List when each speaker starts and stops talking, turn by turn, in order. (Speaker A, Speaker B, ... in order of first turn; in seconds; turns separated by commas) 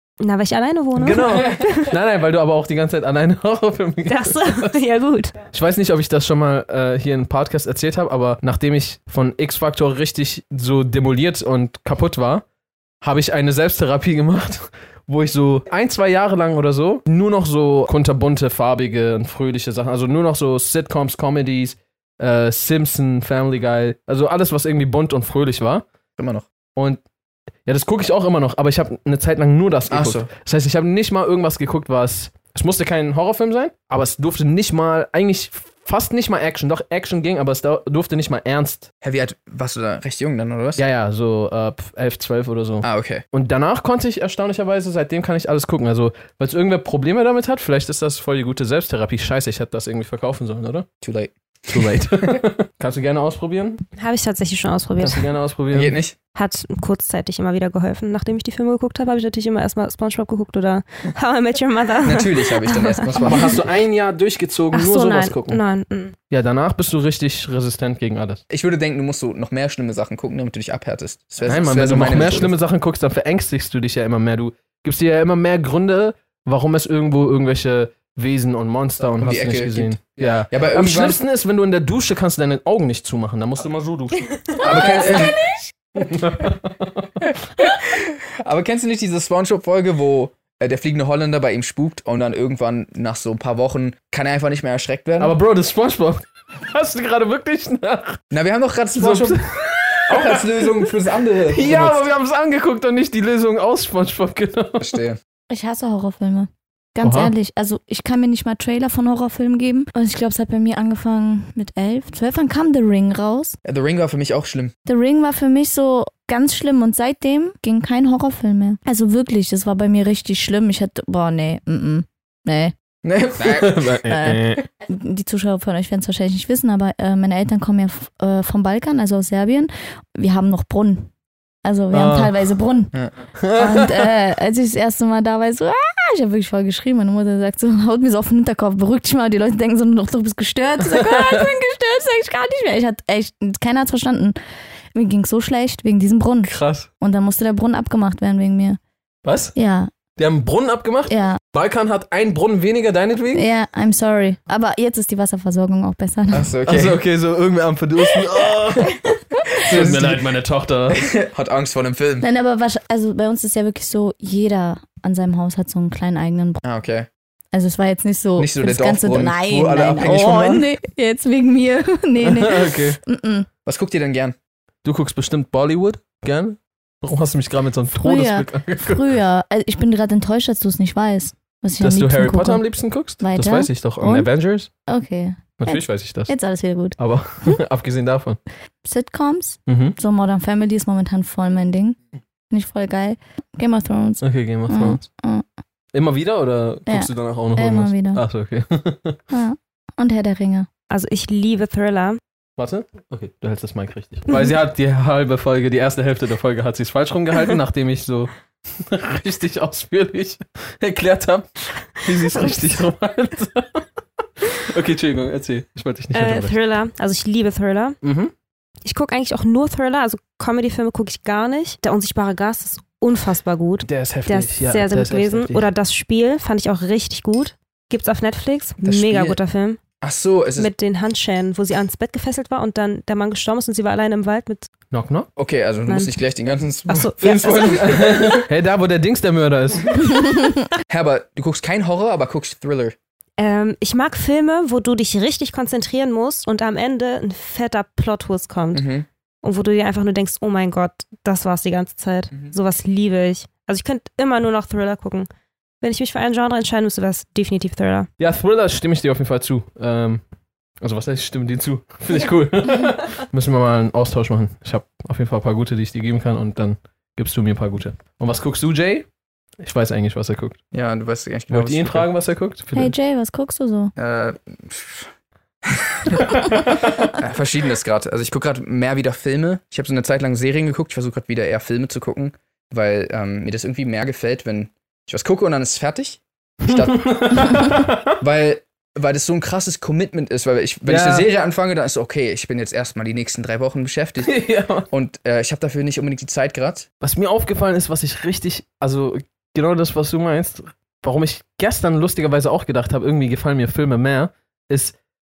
Speaker A: 0.2-1.9, Speaker B: 1.0-4.7, Speaker A: 4.1-5.4, Speaker B: 5.5-12.4, Speaker B: 13.0-25.9, Speaker C: 26.2-26.4, Speaker B: 26.7-27.0, Speaker B: 27.6-38.9, Speaker C: 29.9-30.3, Speaker C: 39.0-40.8, Speaker B: 40.8-50.9, Speaker C: 42.8-43.2, Speaker C: 51.0-52.4, Speaker B: 51.7-53.8, Speaker A: 54.0-55.3, Speaker B: 55.0-56.0, Speaker C: 55.7-56.1, Speaker A: 56.4-63.5, Speaker C: 62.0-63.6, Speaker B: 63.2-65.6, Speaker A: 64.7-66.2, Speaker B: 66.3-68.4, Speaker C: 68.5-72.5, Speaker B: 71.4-85.3, Speaker C: 79.2-81.2, Speaker D: 84.6-85.7, Speaker C: 84.6-85.3, Speaker B: 85.9-87.1, Speaker C: 87.2-95.3, Speaker B: 95.2-98.2, Speaker C: 98.3-99.4, Speaker B: 99.0-101.0, Speaker C: 100.0-102.1, Speaker B: 101.5-105.0, Speaker C: 104.8-105.2, Speaker D: 105.5-113.6, Speaker B: 107.0-107.3, Speaker C: 113.6-114.7, Speaker D: 114.8-122.7, Speaker C: 123.0-123.9, Speaker B: 123.4-124.6, Speaker D: 124.0-131.1, Speaker D: 131.6-132.9, Speaker B: 131.9-132.3, Speaker B: 133.4-134.1, Speaker D: 133.5-144.4, Speaker B: 140.8-141.5, Speaker D: 144.9-148.8, Speaker B: 146.4-146.9, Speaker B: 149.2-149.5, Speaker D: 149.5-149.9, Speaker B: 150.2-153.5, Speaker D: 151.1-151.4, Speaker D: 153.3-156.5, Speaker C: 156.3-157.0, Speaker B: 156.7-161.1, Speaker C: 159.6-160.3, Speaker C: 160.9-162.3, Speaker D: 162.2-166.6, Speaker C: 166.6-167.1, Speaker D: 167.5-173.5, Speaker C: 168.4-170.7, Speaker B: 172.2-173.0, Speaker C: 173.7-174.3, Speaker B: 174.8-179.1, Speaker D: 178.0-182.6, Speaker B: 181.8-184.7, Speaker D: 183.2-184.3, Speaker D: 184.8-187.6, Speaker B: 185.6-186.3, Speaker B: 187.0-188.4, Speaker D: 188.8-192.0, Speaker B: 189.7-189.9, Speaker D: 192.5-195.4, Speaker B: 194.2-195.0, Speaker B: 195.9-199.2, Speaker D: 196.9-198.2, Speaker D: 199.3-200.7, Speaker A: 200.9-202.2, Speaker B: 202.6-216.5, Speaker A: 216.1-218.0, Speaker B: 218.0-218.3, Speaker A: 218.8-229.8, Speaker B: 223.8-225.7, Speaker C: 228.8-229.4, Speaker C: 230.0-230.7, Speaker A: 230.6-234.7, Speaker B: 234.9-235.3, Speaker C: 235.3-238.4, Speaker A: 235.9-236.1, Speaker A: 236.9-238.2, Speaker B: 237.2-240.3, Speaker C: 240.9-242.9, Speaker A: 243.4-248.9, Speaker C: 248.7-249.1, Speaker A: 249.4-255.3, Speaker A: 255.8-258.1, Speaker B: 258.2-260.2, Speaker B: 260.8-269.1, Speaker B: 269.6-270.6, Speaker C: 270.7-272.1, Speaker B: 271.5-272.9, Speaker D: 272.7-273.9, Speaker C: 273.9-275.1, Speaker C: 275.6-296.9, Speaker B: 286.6-288.1, Speaker B: 290.9-291.3, Speaker B: 294.2-294.9, Speaker B: 297.0-304.9